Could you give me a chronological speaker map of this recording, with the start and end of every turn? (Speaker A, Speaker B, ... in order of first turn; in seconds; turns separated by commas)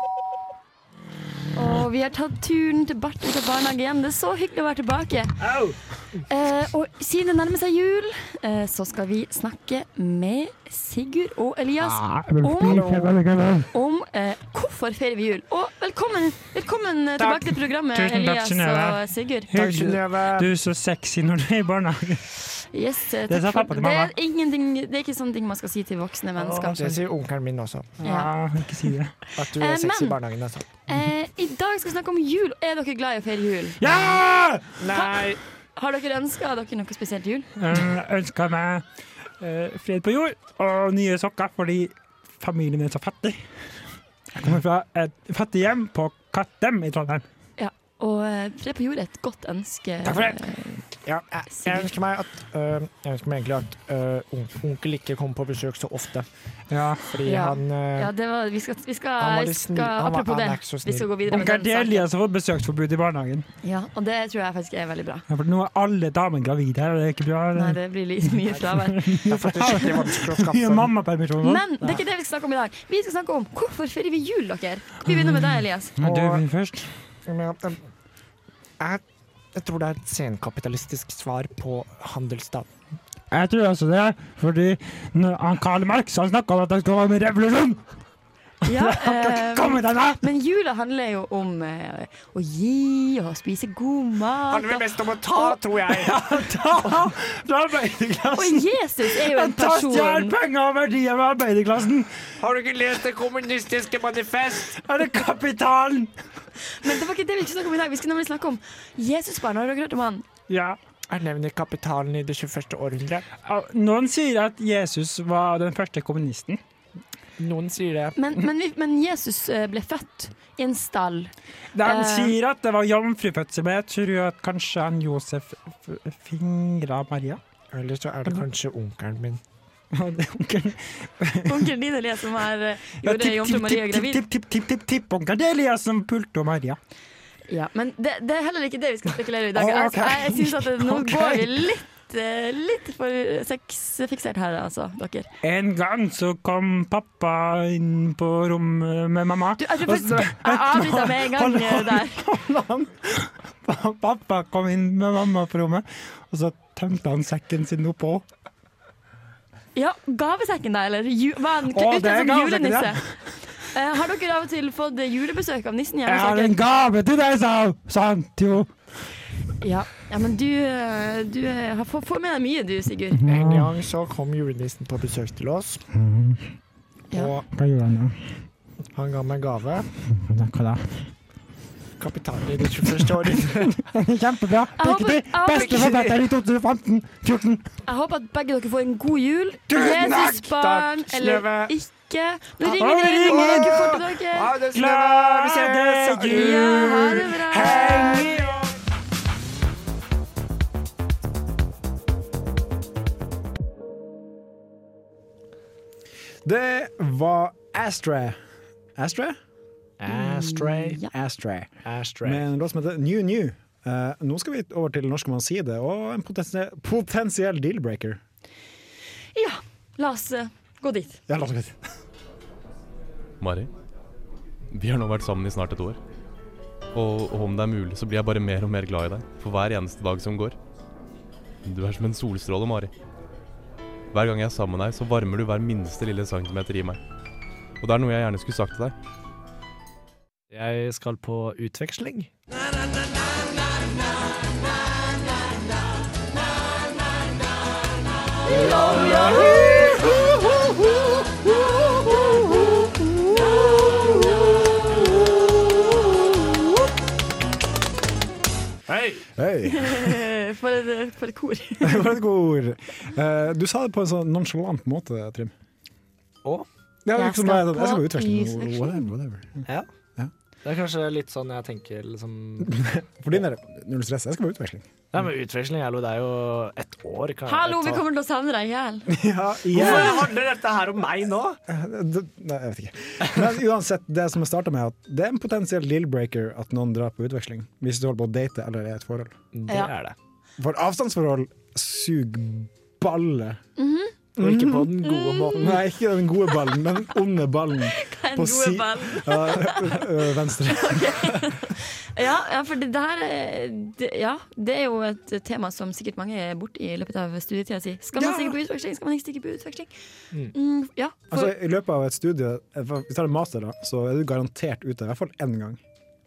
Speaker A: 1.5-5.4, Speaker B: 5.4-5.8, Speaker A: 6.3-13.1, Speaker C: 11.8-13.7, Speaker B: 12.7-13.1, Speaker A: 13.7-19.6, Speaker C: 17.2-22.3, Speaker B: 19.5-20.5, Speaker A: 22.7-26.9, Speaker C: 23.3-24.1, Speaker B: 26.4-28.0, Speaker C: 28.0-29.1, Speaker A: 28.0-28.3, Speaker B: 29.4-30.7, Speaker A: 29.5-30.2, Speaker A: 30.9-33.8, Speaker C: 33.8-34.8, Speaker B: 34.8-35.4, Speaker A: 34.9-35.2, Speaker A: 35.7-37.5, Speaker C: 37.5-38.8, Speaker C: 39.4-43.4, Speaker C: 44.3-47.2, Speaker A: 47.6-50.8, Speaker C: 50.0-50.5, Speaker B: 51.0-56.3, Speaker A: 51.5-51.9, Speaker C: 56.7-57.1, Speaker B: 57.1-58.1, Speaker A: 57.2-62.1, Speaker B: 59.2-61.1, Speaker C: 61.3-63.5, Speaker A: 63.6-65.2, Speaker C: 65.3-67.8, Speaker A: 67.5-69.3, Speaker C: 68.7-71.7, Speaker B: 69.2-70.9, Speaker A: 71.4-76.0, Speaker C: 75.1-75.3, Speaker C: 76.0-76.9, Speaker B: 76.0-76.4, Speaker B: 77.2-77.9, Speaker B: 79.5-82.7, Speaker C: 83.3-87.8, Speaker C: 88.6-90.2, Speaker A: 88.7-95.5, Speaker B: 94.5-97.0, Speaker C: 95.9-102.2, Speaker A: 98.3-100.4, Speaker B: 102.4-104.8, Speaker C: 104.7-106.1, Speaker A: 106.6-110.2, Speaker C: 110.5-110.8, Speaker B: 111.1-113.2, Speaker C: 113.3-116.6, Speaker B: 117.4-118.2, Speaker A: 118.2-122.3, Speaker C: 121.7-127.4, Speaker B: 127.7-129.4, Speaker C: 129.9-131.5, Speaker A: 131.4-134.2, Speaker C: 133.0-136.8, Speaker A: 137.5-145.3, Speaker C: 139.5-141.5, Speaker C: 145.4-158.2, Speaker A: 149.6-152.2, Speaker A: 159.8-166.6, Speaker C: 161.7-163.2, Speaker C: 166.1-168.7, Speaker A: 169.6-173.3, Speaker C: 173.2-173.7, Speaker B: 173.3-175.8, Speaker C: 175.9-176.5, Speaker B: 177.1-177.4, Speaker C: 177.4-178.3, Speaker B: 178.9-179.9, Speaker C: 180.1-181.1, Speaker B: 182.0-183.8, Speaker C: 183.3-187.7, Speaker A: 184.8-185.9, Speaker B: 185.5-186.2, Speaker A: 187.8-194.5, Speaker C: 189.7-190.5, Speaker B: 190.6-191.7, Speaker C: 192.8-194.0, Speaker B: 193.2-197.1, Speaker C: 194.7-198.7, Speaker A: 196.3-198.3, Speaker D: 206.4-208.4, Speaker D: 209.0-209.4, Speaker B: 210.0-211.0, Speaker A: 210.1-211.1, Speaker D: 211.1-211.7, Speaker B: 211.8-212.4, Speaker D: 212.2-218.2, Speaker A: 219.3-221.2, Speaker D: 221.3-221.9, Speaker E: 223.4-223.7, Speaker E: 224.7-226.0, Speaker E: 226.9-230.6, Speaker E: 231.7-232.9, Speaker E: 234.1-237.0, Speaker E: 237.8-238.9, Speaker B: 240.5-242.3, Speaker B: 248.4-251.1, Speaker A: 248.4-250.1, Speaker B: 252.1-252.4, Speaker A: 253.1-254.5, Speaker B: 258.9-259.3, Speaker D: 259.4-260.2, Speaker A: 259.7-262.1, Speaker D: 261.8-265.5, Speaker D: 267.0-269.6, Speaker A: 267.1-269.1, Speaker B: 270.6-272.8, Speaker D: 272.6-274.9, Speaker B: 275.1-278.0, Speaker A: 277.4-279.2, Speaker D: 279.1-280.3, Speaker B: 279.7-281.6, Speaker A: 279.8-280.2, Speaker D: 281.7-289.3, Speaker B: 289.5-290.1, Speaker D: 290.6-293.6, Speaker A: 293.8-294.1, Speaker D: 294.4-294.9, Speaker B: 294.4-295.8, Speaker A: 295.0-295.8, Speaker D: 295.5-301.6, Speaker A: 297.8-309.9, Speaker A: 310.5-311.5, Speaker D: 311.3-315.8